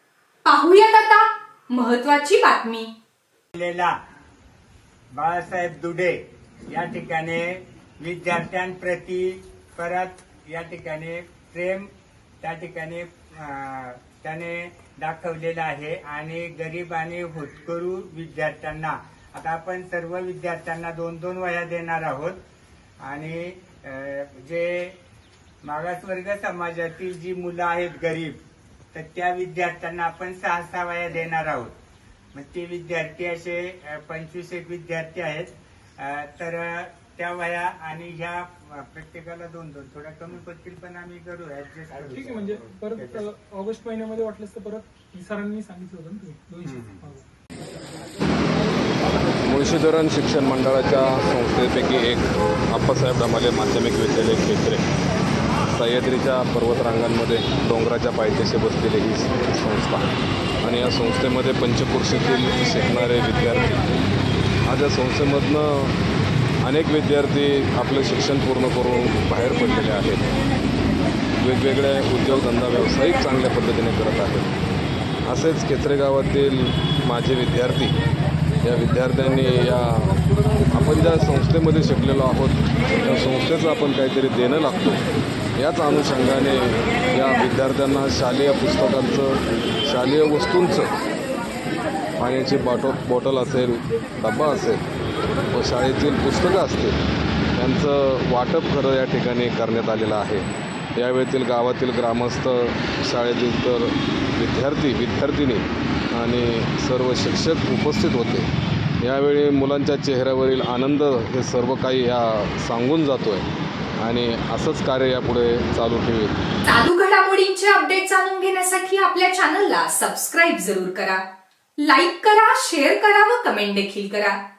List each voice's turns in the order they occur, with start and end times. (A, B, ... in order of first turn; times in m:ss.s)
0:00.4-0:02.9 A
0:03.6-0:04.0 B
0:05.1-0:11.9 B
0:12.4-0:22.4 B
0:23.0-0:25.0 B
0:25.6-0:28.4 B
0:28.9-0:31.7 B
0:32.3-0:43.3 B
0:42.1-0:47.3 C
0:46.7-0:47.0 B
0:49.4-0:54.9 D
0:55.6-1:00.1 D
1:00.6-1:03.8 D
1:04.7-1:06.0 D
1:06.6-1:10.3 D
1:11.4-1:14.6 D
1:15.2-1:18.0 D
1:18.6-1:25.0 D
1:25.6-1:31.0 D
1:32.2-1:34.8 D
1:35.5-1:37.0 D
1:37.6-1:48.5 D
1:49.0-1:53.5 D
1:54.0-1:56.3 D
1:56.6-2:01.2 A
2:01.8-2:04.4 A